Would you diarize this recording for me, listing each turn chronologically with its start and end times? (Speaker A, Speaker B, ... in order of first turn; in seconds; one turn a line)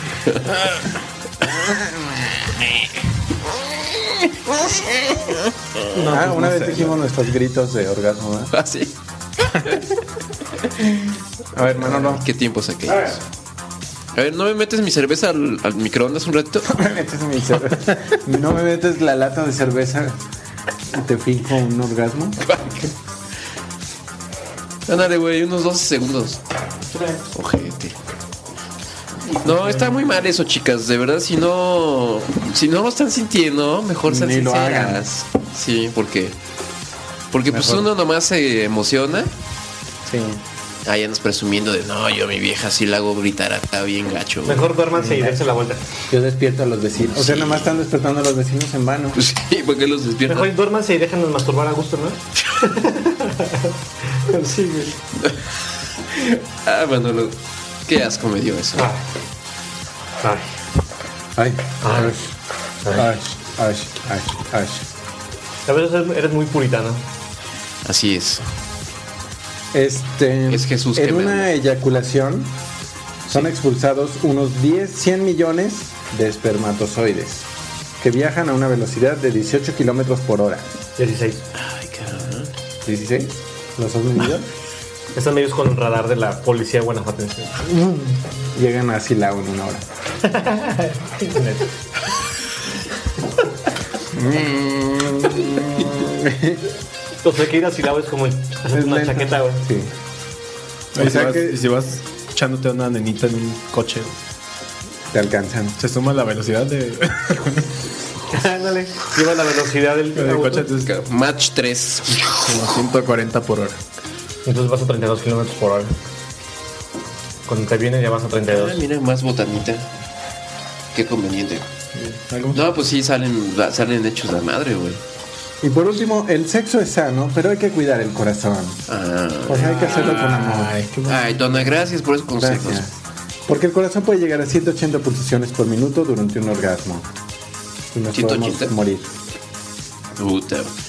Speaker A: 0.2-0.6
Speaker A: 4.5-5.4
Speaker B: 5.9-7.0
Speaker C: 6.1-8.5
Speaker A: 8.5-9.8
Speaker C: 11.5-12.2
Speaker A: 11.6-13.2
Speaker A: 14.1-16.7
Speaker C: 16.6-20.1
Speaker C: 20.9-22.4
Speaker A: 22.4-22.9
Speaker A: 24.9-26.4
Speaker A: 27.3-27.9
Speaker A: 29.3-36.4
Speaker C: 34.1-35.0
Speaker A: 37.3-39.3
Speaker C: 37.5-37.9
Speaker C: 40.1-40.4
Speaker A: 40.9-44.7
Speaker B: 44.5-45.8
Speaker C: 44.9-45.4
Speaker C: 46.1-49.2
Speaker A: 47.1-47.8
Speaker A: 49.1-50.5
Speaker B: 50.3-55.0
Speaker A: 56.1-58.9
Speaker B: 58.8-59.0
Speaker B: 60.2-60.5
Speaker C: 61.4-61.8
Speaker B: 61.8-62.3
Speaker B: 62.8-63.1
Speaker C: 62.9-64.8
Speaker B: 65.7-67.0
Speaker A: 67.8-68.5
Speaker C: 69.7-72.5
Speaker A: 70.5-71.5
Speaker C: 73.2-77.5
Speaker C: 78.0-80.7
Speaker B: 81.0-81.4
Speaker A: 81.6-82.5
Speaker C: 82.8-84.5
Speaker B: 85.1-88.0
Speaker C: 88.5-89.9
Speaker B: 90.2-91.7
Speaker C: 94.1-96.6
Speaker B: 97.2-99.6
Speaker C: 98.7-99.9
Speaker C: 100.9-101.6
Speaker D: 100.9-104.2
Speaker C: 105.1-105.8
Speaker D: 105.8-107.7
Speaker B: 108.3-110.7
Speaker D: 110.1-110.9
Speaker A: 110.8-112.4
Speaker D: 112.3-113.8
Speaker B: 114.5-116.0
Speaker B: 117.5-118.8
Speaker A: 118.5-119.8
Speaker A: 120.9-121.7
Speaker D: 121.9-122.6
Speaker A: 122.5-125.0
Speaker C: 125.6-128.8
Speaker A: 128.9-130.3
Speaker C: 129.5-130.8
Speaker D: 129.8-131.7
Speaker A: 131.0-132.9
Speaker C: 132.4-137.1
Speaker C: 137.9-139.1
Speaker A: 138.1-138.7
Speaker A: 140.2-140.8